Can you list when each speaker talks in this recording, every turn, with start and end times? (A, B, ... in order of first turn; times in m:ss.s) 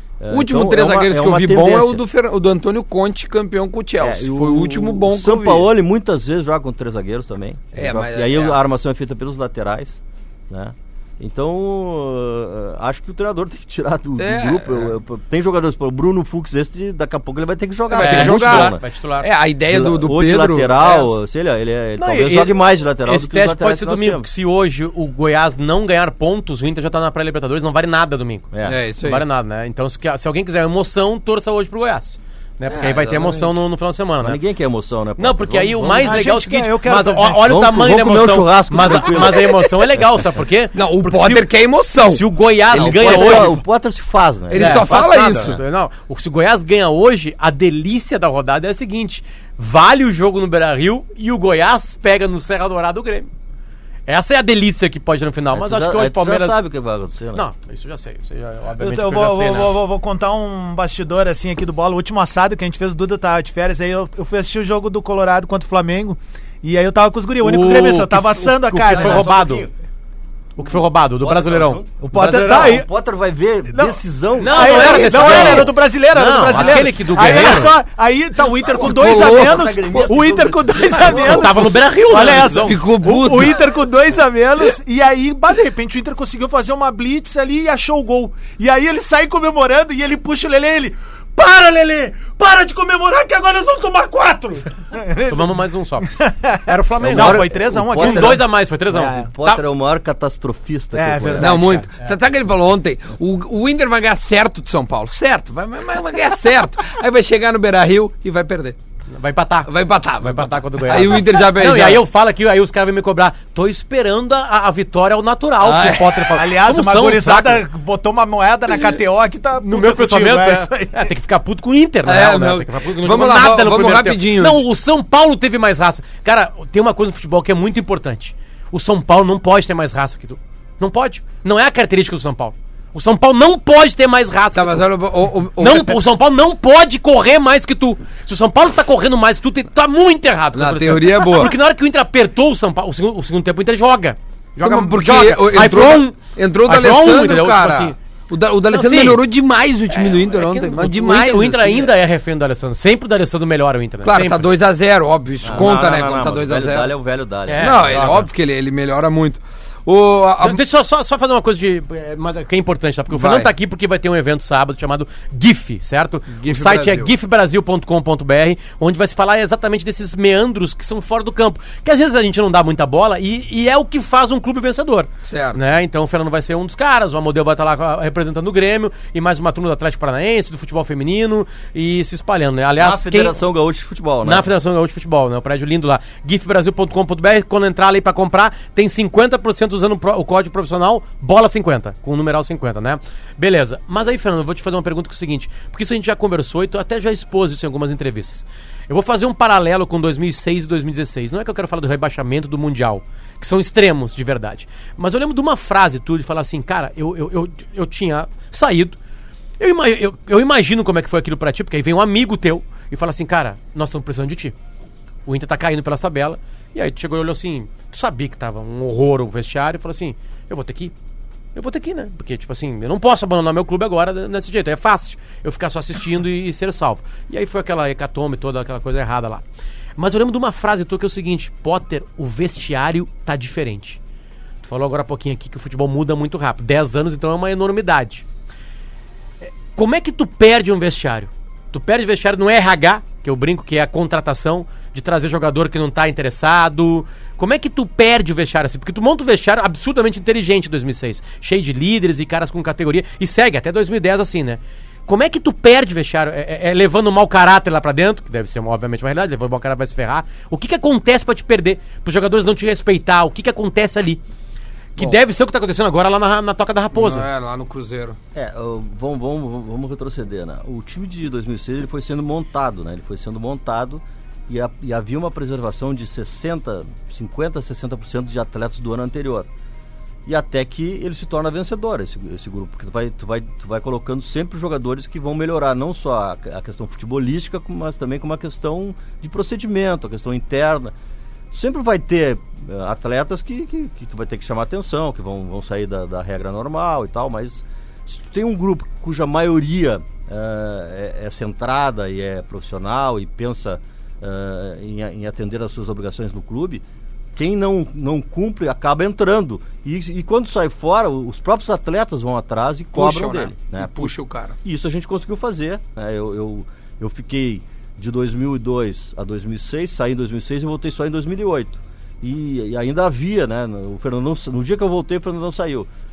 0:00.2-0:02.0 A
0:00.3-0:05.7 B
0:04.0-0:18.8 A
0:07.7-0:08.6 B
0:14.2-0:14.9 B
0:17.9-0:21.2 B
0:18.0-0:19.3 C
0:19.7-0:24.3 A
0:22.0-0:34.4 C
0:28.5-0:28.8 A
0:28.6-0:29.2 B
0:32.7-0:33.6 B
0:34.2-0:36.3 A
0:35.2-0:43.6 C
0:36.0-0:37.5 D
0:37.5-0:40.0 A
0:40.7-0:43.6 B
0:42.7-0:45.1 A
0:44.5-0:45.6 B
0:44.5-0:53.3 C
0:54.1-0:56.6 C
0:55.5-0:57.5 A
0:57.3-0:59.8 C
0:58.8-1:09.3 D
1:07.4-1:09.7 C
1:08.7-1:09.7 A
1:10.6-1:12.8 C
1:11.2-1:15.7 A
1:12.0-1:12.9 D
1:13.7-1:35.6 D
1:14.4-1:17.7 C
1:16.6-1:17.6 A
1:18.7-1:21.7 A
1:18.8-1:20.1 B
1:21.1-1:22.8 C
1:22.2-1:23.7 B
1:35.3-1:36.1 C
1:36.1-1:39.3 D
1:36.6-1:39.6 C
1:37.0-1:41.8 A
1:40.9-1:41.9 D
1:41.4-1:48.8 B
1:49.1-1:49.7 C
1:49.6-1:52.0 B
1:50.2-1:57.6 C
1:55.6-1:56.4 B
1:56.4-2:01.1 D
1:59.6-2:14.9 C
2:02.0-2:04.6 B
2:14.5-2:16.0 B
2:15.6-2:28.0 C
2:20.5-2:21.5 B
2:24.6-2:31.9 B
2:28.7-2:29.2 C
2:29.9-2:34.5 C
2:34.0-2:36.9 B
2:35.4-2:38.1 A
2:37.5-2:38.3 C
2:37.6-2:40.6 B
2:40.4-3:03.4 C
2:43.1-2:43.5 B
2:46.3-2:47.1 B
2:55.2-2:55.6 B
3:02.8-3:04.5 A
3:04.2-3:29.0 C
3:29.6-3:34.6 C
3:35.3-3:40.9 C
3:41.6-3:49.4 C
3:50.0-3:54.0 C
3:54.6-3:58.2 C
3:59.4-4:24.2 C
4:25.0-4:27.3 C
4:26.9-4:28.2 B
4:28.3-4:39.5 A
4:40.3-4:51.0 A
4:51.5-5:06.8 A
5:07.4-5:25.9 A
5:12.9-5:14.6 B